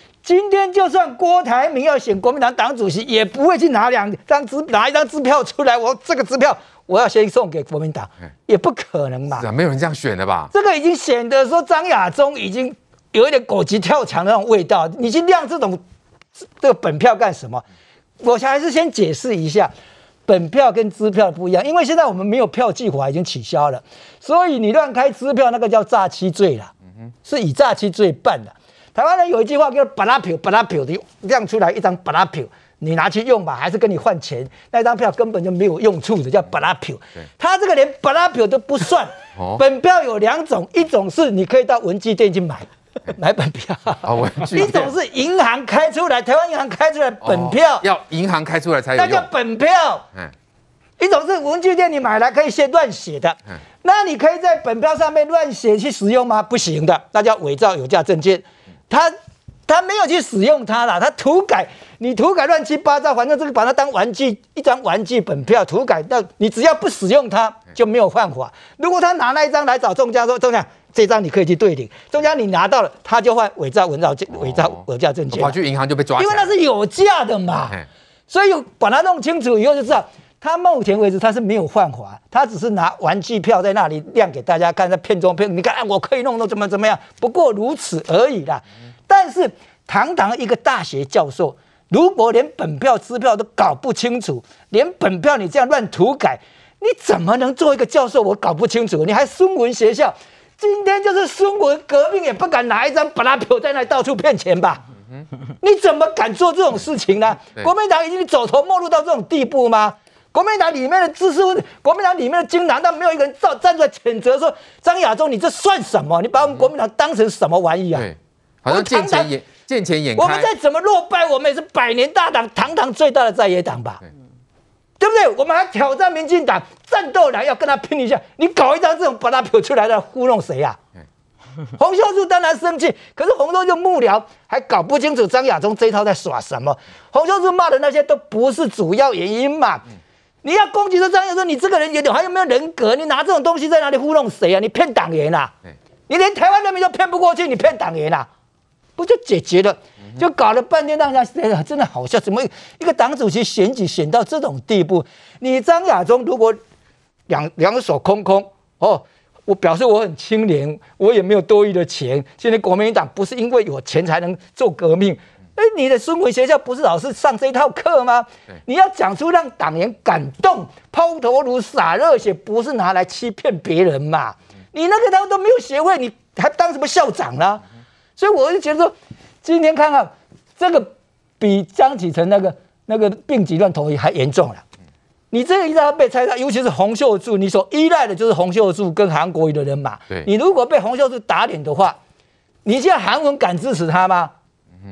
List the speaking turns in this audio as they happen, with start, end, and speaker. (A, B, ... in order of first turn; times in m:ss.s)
0:00.2-0:09.4 A
0:09.4-0:10.5 B
0:10.5-0:15.8 A
0:16.5-0:17.6 A
0:18.2-0:19.7 A
0:20.3-0:26.7 A
0:27.2-0:47.8 A
0:39.4-0:39.6 B
0:44.0-0:45.0 B
0:47.2-0:49.3 B
0:49.0-0:50.0 A
0:51.0-0:59.1 A
0:59.7-1:15.6 A
1:15.3-1:16.5 B
1:16.2-1:44.8 A
1:45.6-1:58.1 A
1:57.9-2:00.5 B
1:58.7-1:59.3 A
2:00.2-2:04.0 A
2:05.0-2:10.8 A
2:11.8-2:19.8 A
2:20.4-2:25.5 A
2:26.1-2:28.3 A
2:29.0-2:36.6 A
2:37.3-2:57.6 A
2:58.2-3:04.6 A
3:05.3-3:12.0 A
3:12.6-3:14.3 A